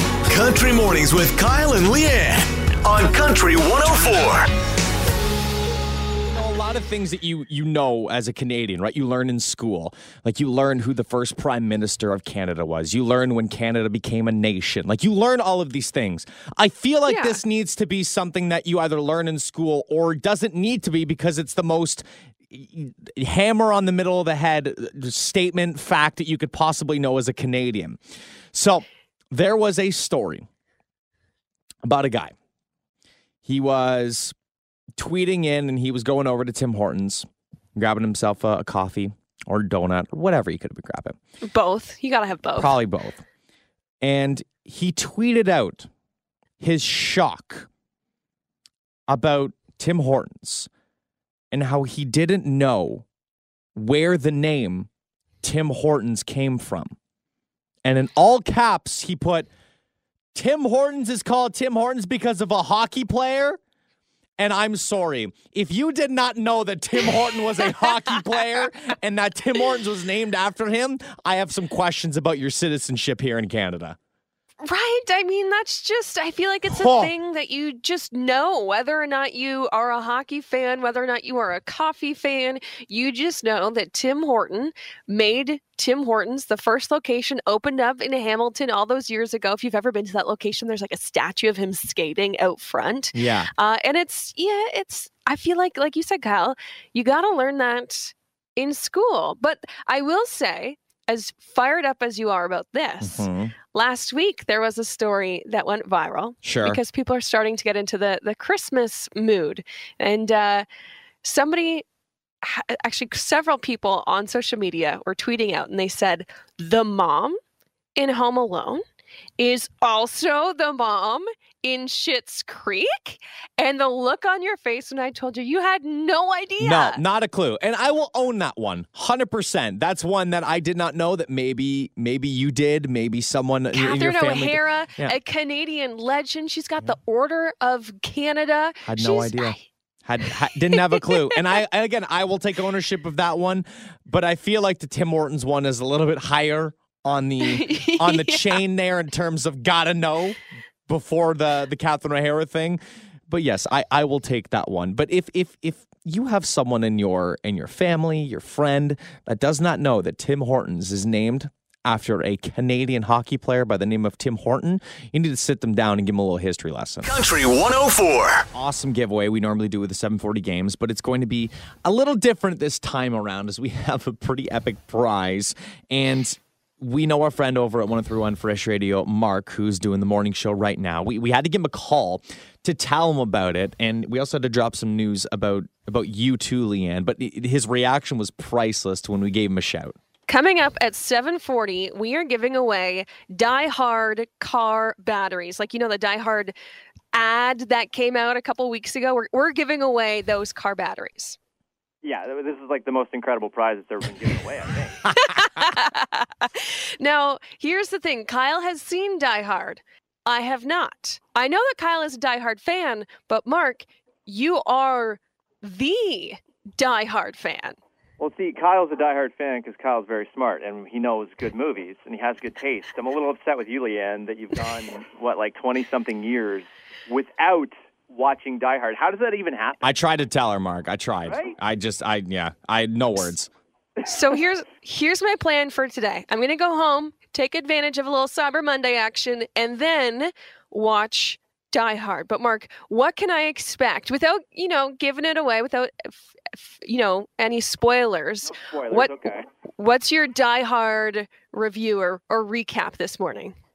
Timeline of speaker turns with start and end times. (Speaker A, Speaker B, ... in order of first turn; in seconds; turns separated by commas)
Speaker A: 0.3-4.5, Speaker B: 6.2-28.0, Speaker C: 17.1-17.4, Speaker B: 28.5-30.5, Speaker B: 31.8-32.3, Speaker B: 33.4-34.3, Speaker B: 35.0-41.2, Speaker C: 41.4-42.7, Speaker B: 42.6-43.2, Speaker B: 44.0-45.9, Speaker B: 46.6-47.7, Speaker B: 49.1-50.7, Speaker B: 51.5-53.0, Speaker B: 53.7-54.9, Speaker B: 55.4-56.9, Speaker B: 57.8-59.5, Speaker B: 60.3-63.6, Speaker B: 64.4-74.0, Speaker C: 74.6-110.7, Speaker B: 76.7-77.1, Speaker B: 93.1-93.5, Speaker B: 103.0-103.5, Speaker B: 106.4-106.8, Speaker C: 111.2-111.8, Speaker C: 112.4-117.4, Speaker C: 118.0-118.8, Speaker C: 119.4-127.0, Speaker B: 126.6-135.2, Speaker C: 133.7-139.6, Speaker B: 138.8-167.1, Speaker C: 140.2-141.4, Speaker C: 147.4-148.6, Speaker A: 167.0-168.5, Speaker B: 168.5-189.9, Speaker C: 190.3-196.5, Speaker C: 197.1-201.4, Speaker D: 202.0-205.1, Speaker C: 205.2-217.8, Speaker D: 218.2-229.9, Speaker B: 229.8-233.5, Speaker D: 231.3-231.5, Speaker C: 234.0-249.2, Speaker D: 248.6-249.4, Speaker C: 249.8-253.5